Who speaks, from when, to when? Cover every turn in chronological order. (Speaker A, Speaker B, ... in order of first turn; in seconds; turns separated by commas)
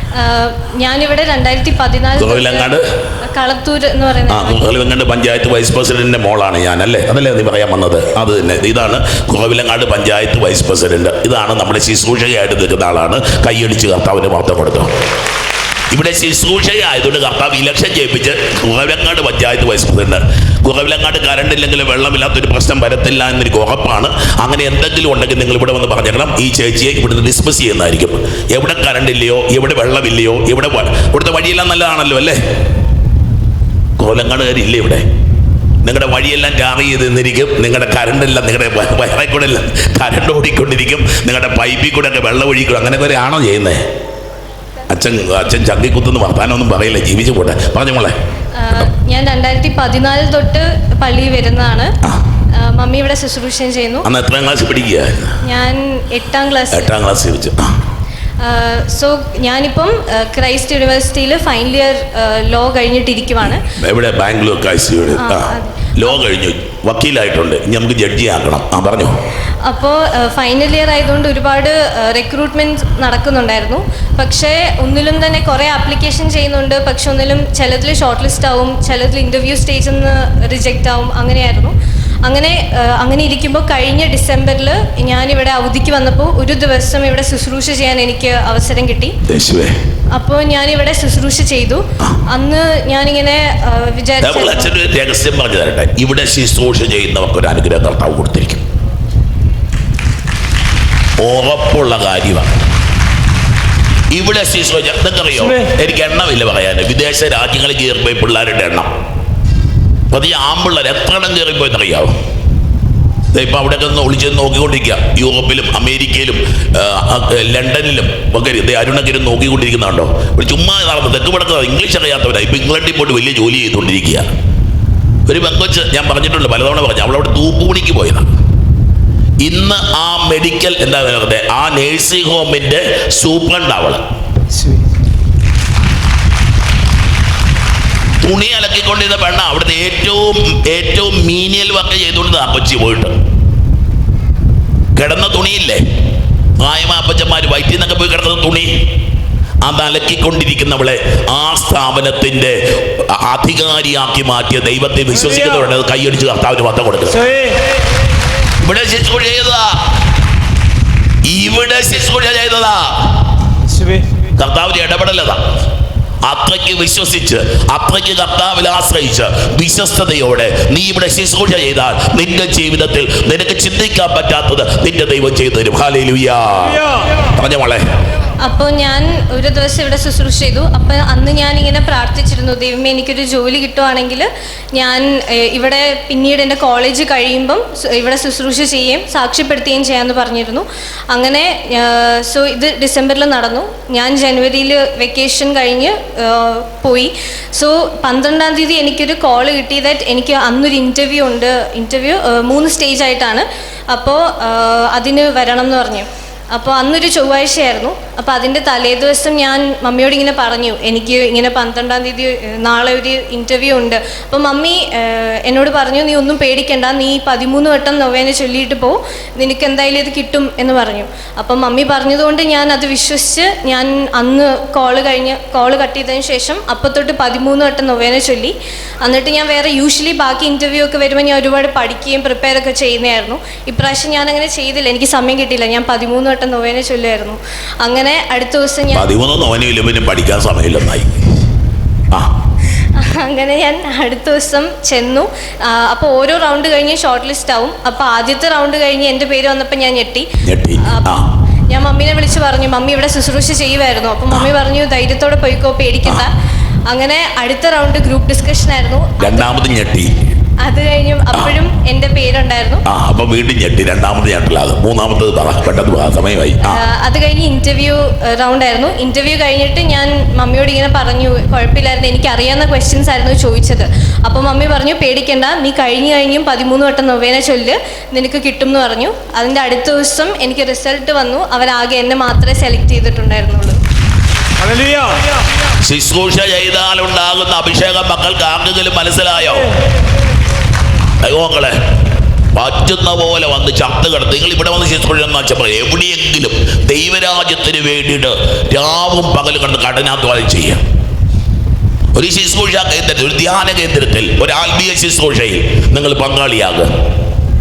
Speaker A: 0.1-4.7, Speaker B: 2.2-3.0, Speaker B: 4.3-14.9, Speaker B: 15.9-32.4, Speaker B: 34.0-35.1, Speaker B: 35.8-43.9, Speaker B: 44.9-48.2, Speaker A: 48.5-51.9, Speaker A: 52.5-54.1, Speaker B: 54.0-55.4, Speaker A: 55.4-56.9, Speaker B: 56.7-57.9, Speaker A: 58.4-63.7, Speaker B: 63.6-69.2, Speaker A: 65.2-66.2, Speaker A: 69.6-81.7, Speaker A: 82.2-89.2, Speaker B: 89.3-89.8, Speaker A: 90.1-94.8, Speaker B: 94.2-98.6, Speaker B: 101.2-102.5, Speaker B: 104.1-108.9, Speaker B: 110.1-112.1, Speaker B: 113.3-124.3, Speaker B: 125.3-128.3, Speaker B: 129.4-134.0, Speaker B: 138.2-143.2, Speaker B: 144.9-145.8, Speaker B: 146.6-148.8, Speaker B: 149.6-157.3, Speaker B: 158.6-159.8, Speaker B: 161.2-163.4, Speaker B: 164.3-165.4, Speaker B: 166.2-177.8, Speaker A: 178.4-239.1, Speaker B: 238.9-241.3, Speaker B: 242.1-242.4, Speaker A: 242.8-250.3, Speaker B: 250.4-251.3, Speaker A: 250.8-256.3, Speaker A: 256.9-259.5, Speaker B: 259.2-260.1, Speaker A: 260.6-262.8, Speaker B: 262.9-266.8, Speaker A: 266.6-283.8, Speaker B: 285.8-289.7, Speaker B: 291.2-291.8, Speaker B: 292.5-300.8, Speaker B: 302.1-306.9